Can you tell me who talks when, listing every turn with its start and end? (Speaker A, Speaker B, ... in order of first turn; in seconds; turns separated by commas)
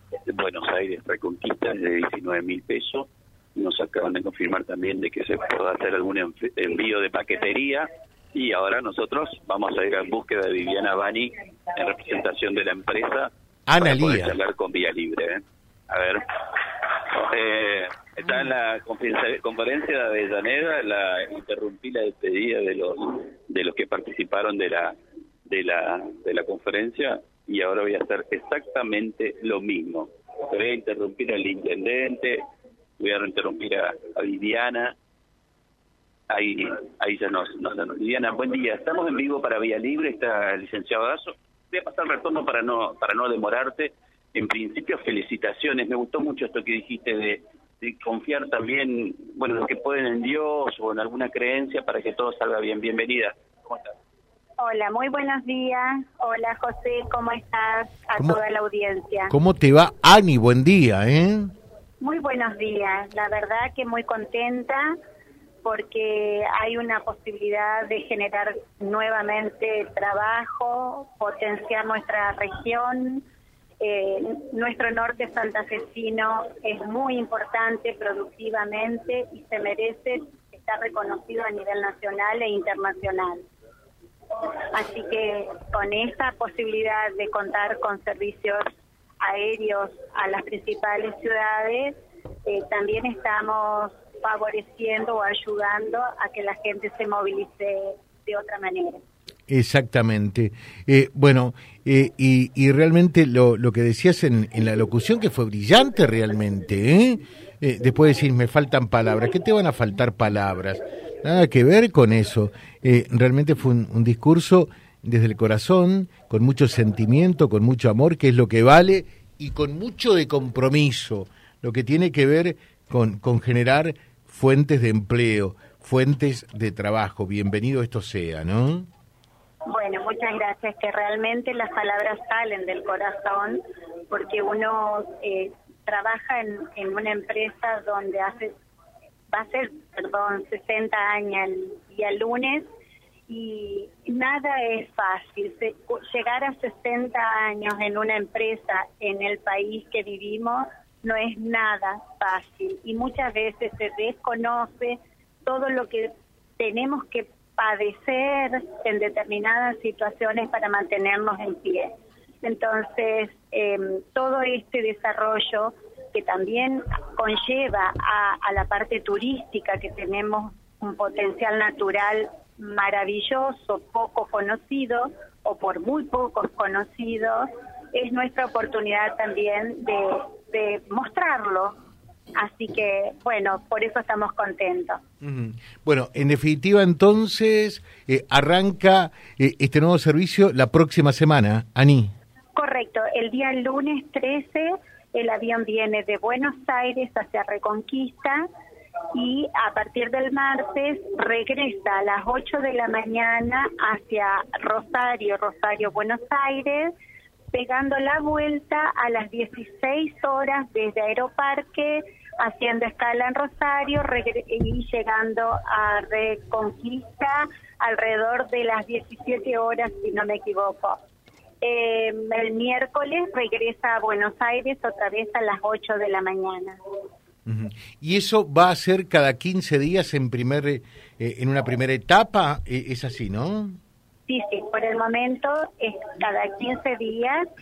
Speaker A: 0.3-25.0, Speaker B: 13.7-14.4, Speaker A: 25.5-32.4, Speaker A: 33.0-34.9, Speaker A: 36.3-53.9, Speaker C: 54.6-59.3, Speaker B: 59.3-61.5, Speaker C: 62.0-64.9, Speaker C: 65.6-73.2, Speaker C: 73.8-83.5, Speaker C: 84.7-88.7, Speaker C: 89.2-99.0, Speaker B: 99.5-128.9, Speaker C: 129.7-138.5, Speaker C: 139.3-142.7, Speaker C: 143.3-161.9, Speaker C: 162.4-181.8, Speaker C: 182.4-185.0, Speaker B: 185.2-192.1, Speaker C: 192.6-198.4, Speaker C: 199.1-206.9, Speaker C: 207.5-221.0, Speaker C: 221.6-226.8, Speaker B: 227.5-233.8, Speaker C: 234.3-237.5